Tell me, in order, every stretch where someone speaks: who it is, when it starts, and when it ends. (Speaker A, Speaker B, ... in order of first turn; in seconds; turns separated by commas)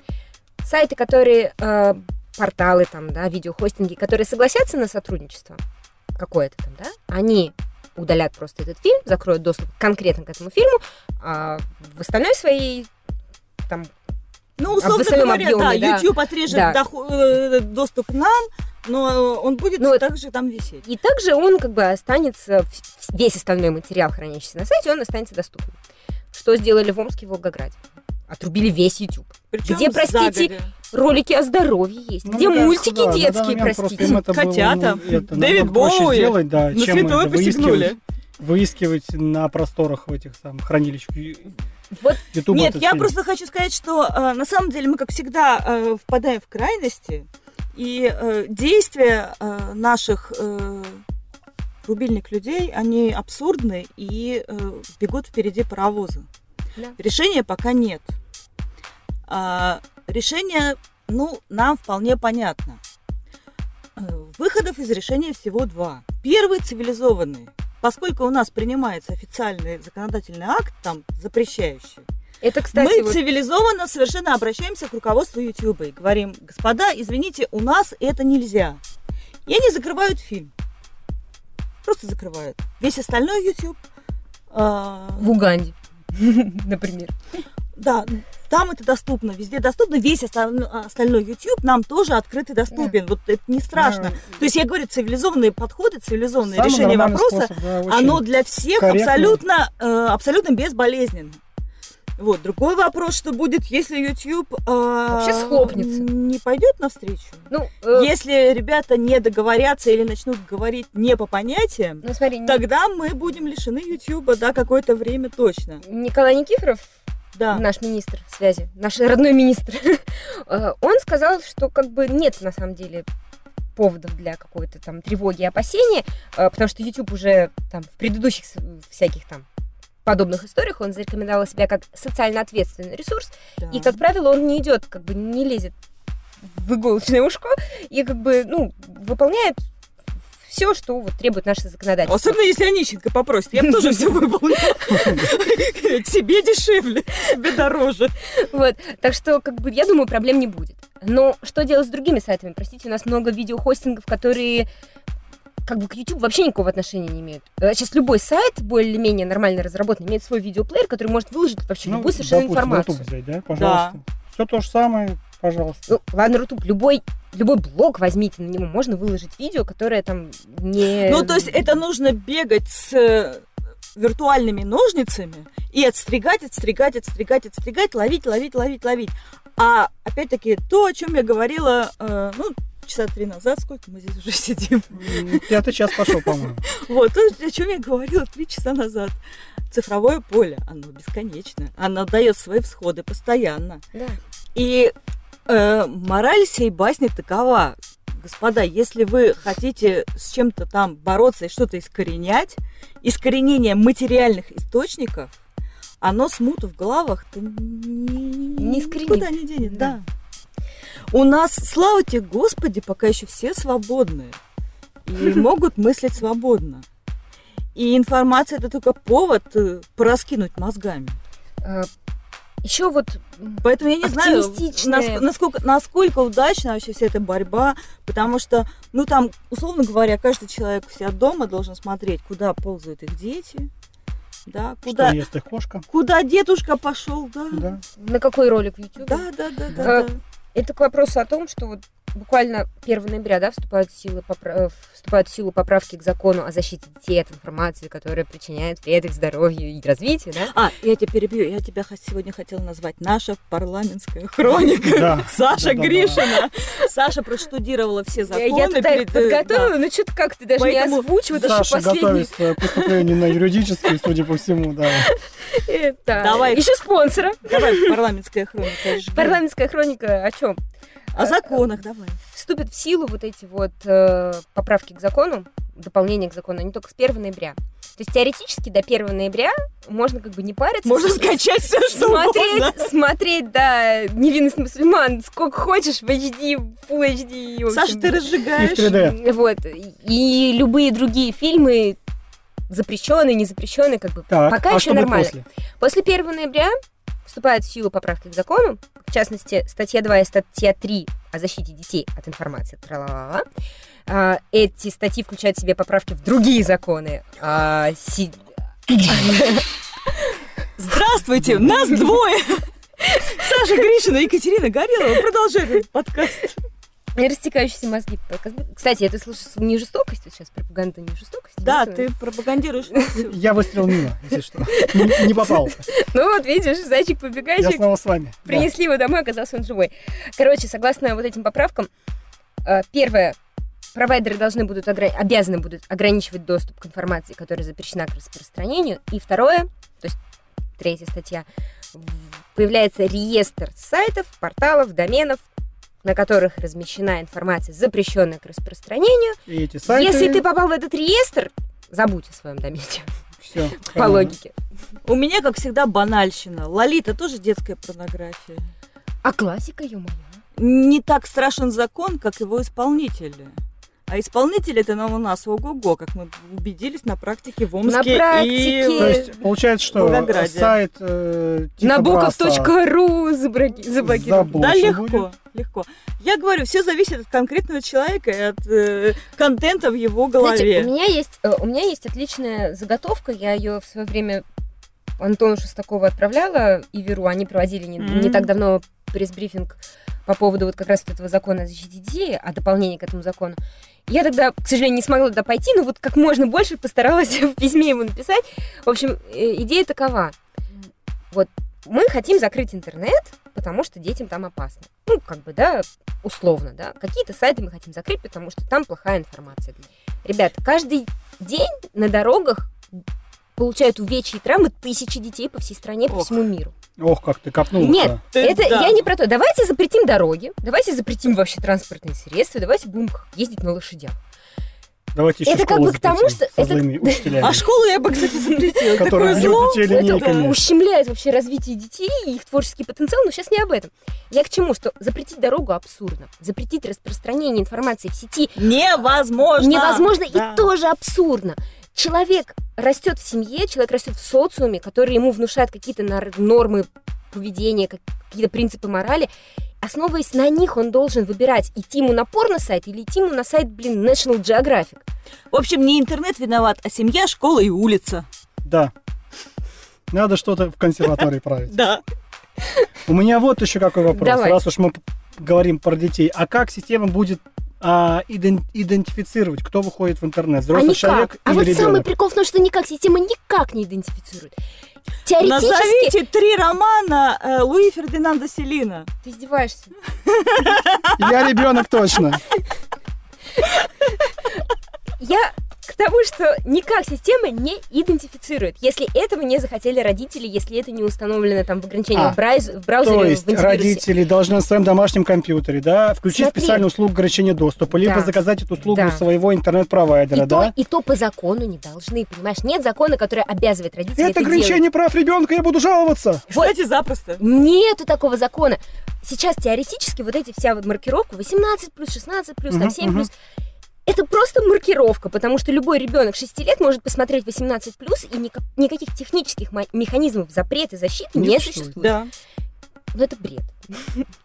Speaker A: 0.6-5.6, Speaker A: 6.1-12.9, Speaker A: 13.7-13.9, Speaker B: 14.6-20.8, Speaker A: 14.8-16.8, Speaker A: 19.8-20.0, Speaker A: 20.8-25.8, Speaker A: 26.3-34.2, Speaker B: 29.5-30.7, Speaker C: 32.2-41.5, Speaker B: 34.0-38.0, Speaker A: 41.9-42.2, Speaker C: 42.3-43.1, Speaker B: 42.5-51.0, Speaker B: 51.8-56.3, Speaker B: 57.0-58.1, Speaker B: 59.3-62.8, Speaker B: 64.0-72.0, Speaker A: 72.4-73.2, Speaker B: 72.7-78.8, Speaker B: 79.5-80.5, Speaker B: 81.8-83.8, Speaker B: 84.5-85.3, Speaker A: 85.2-87.1, Speaker B: 87.8-101.4, Speaker C: 93.7-94.2, Speaker C: 96.4-98.2, Speaker C: 98.8-99.4, Speaker B: 102.2-115.8, Speaker A: 105.1-106.0, Speaker A: 107.5-108.1, Speaker A: 112.0-112.6, Speaker A: 115.8-116.8, Speaker B: 117.3-117.6, Speaker A: 117.5-123.0, Speaker A: 123.8-129.4, Speaker A: 130.0-135.7, Speaker B: 133.6-134.0, Speaker A: 136.4-139.6, Speaker A: 140.4-142.4, Speaker B: 142.1-148.1, Speaker A: 143.6-145.1, Speaker A: 148.3-154.7, Speaker A: 155.7-163.0, Speaker C: 161.8-165.9, Speaker B: 163.6-164.0, Speaker A: 165.9-171.7, Speaker B: 171.0-189.2, Speaker C: 184.9-186.6, Speaker B: 189.7-193.8, Speaker B: 194.5-194.9, Speaker B: 195.5-205.3, Speaker B: 206.0-210.0, Speaker A: 208.6-209.9, Speaker B: 211.1-214.4, Speaker B: 215.1-216.8, Speaker B: 217.7-221.2, Speaker A: 221.6-221.9, Speaker A: 222.6-225.2, Speaker B: 223.6-233.7, Speaker B: 234.5-235.2, Speaker C: 234.8-235.8, Speaker B: 235.9-237.7, Speaker C: 237.5-237.8, Speaker A: 238.0-250.5, Speaker B: 239.0-240.2, Speaker B: 250.5-259.7, Speaker C: 254.9-256.2, Speaker A: 258.3-263.2, Speaker B: 260.6-261.1, Speaker C: 261.3-265.1, Speaker A: 265.0-267.9, Speaker B: 266.2-266.9, Speaker B: 267.4-269.4, Speaker A: 268.7-270.6, Speaker B: 271.1-272.2, Speaker A: 271.2-271.6, Speaker A: 272.3-288.2, Speaker B: 280.8-282.8, Speaker B: 287.7-289.0, Speaker C: 288.6-289.1, Speaker A: 288.9-292.0, Speaker A: 292.7-303.4, Speaker C: 294.3-295.4, Speaker A: 304.1-309.7, Speaker B: 310.8-312.6, Speaker A: 313.1-313.4, Speaker B: 313.2-316.6, Speaker A: 317.2-322.1, Speaker B: 321.6-323.4, Speaker C: 323.3-325.9, Speaker A: 324.7-327.8, Speaker C: 327.6-328.7, Speaker A: 328.4-331.9, Speaker A: 332.6-333.4, Speaker A: 333.9-340.2, Speaker A: 340.8-345.4, Speaker A: 346.0-353.1, Speaker C: 349.5-350.4, Speaker C: 353.4-354.3, Speaker A: 353.8-354.5, Speaker B: 355.0-358.7, Speaker A: 359.2-360.3, Speaker B: 360.6-363.5, Speaker B: 364.1-369.3, Speaker A: 367.9-369.3, Speaker C: 369.0-372.7, Speaker B: 369.9-370.8, Speaker A: 371.8-374.6, Speaker C: 374.0-375.2, Speaker B: 374.5-380.9, Speaker A: 380.4-384.4, Speaker A: 385.2-400.3, Speaker B: 388.0-388.5, Speaker A: 401.3-412.7, Speaker A: 413.6-416.7, Speaker B: 416.1-416.4, Speaker C: 417.0-418.2, Speaker A: 417.8-424.2, Speaker B: 418.0-419.0, Speaker C: 425.1-427.6, Speaker A: 425.4-427.5, Speaker B: 427.4-430.5, Speaker A: 428.4-438.6, Speaker C: 429.0-430.6, Speaker B: 438.6-440.7, Speaker A: 439.6-449.3, Speaker A: 449.8-455.0, Speaker B: 455.5-458.2, Speaker C: 458.6-458.9, Speaker C: 460.1-461.7, Speaker B: 461.7-462.0, Speaker C: 463.1-472.1, Speaker A: 464.1-464.6, Speaker A: 470.7-474.5, Speaker A: 475.2-476.1, Speaker B: 475.4-479.1, Speaker A: 479.2-479.9, Speaker B: 480.3-481.3, Speaker C: 481.1-482.4, Speaker A: 485.2-494.0, Speaker C: 493.0-500.7, Speaker A: 496.3-496.8, Speaker A: 498.0-498.3, Speaker A: 498.9-499.2, Speaker A: 500.3-504.8, Speaker C: 504.1-506.4, Speaker B: 506.5-507.4, Speaker A: 507.4-513.3, Speaker C: 512.7-513.3, Speaker A: 514.0-522.1, Speaker C: 521.3-522.0, Speaker B: 522.0-522.3, Speaker A: 523.1-524.3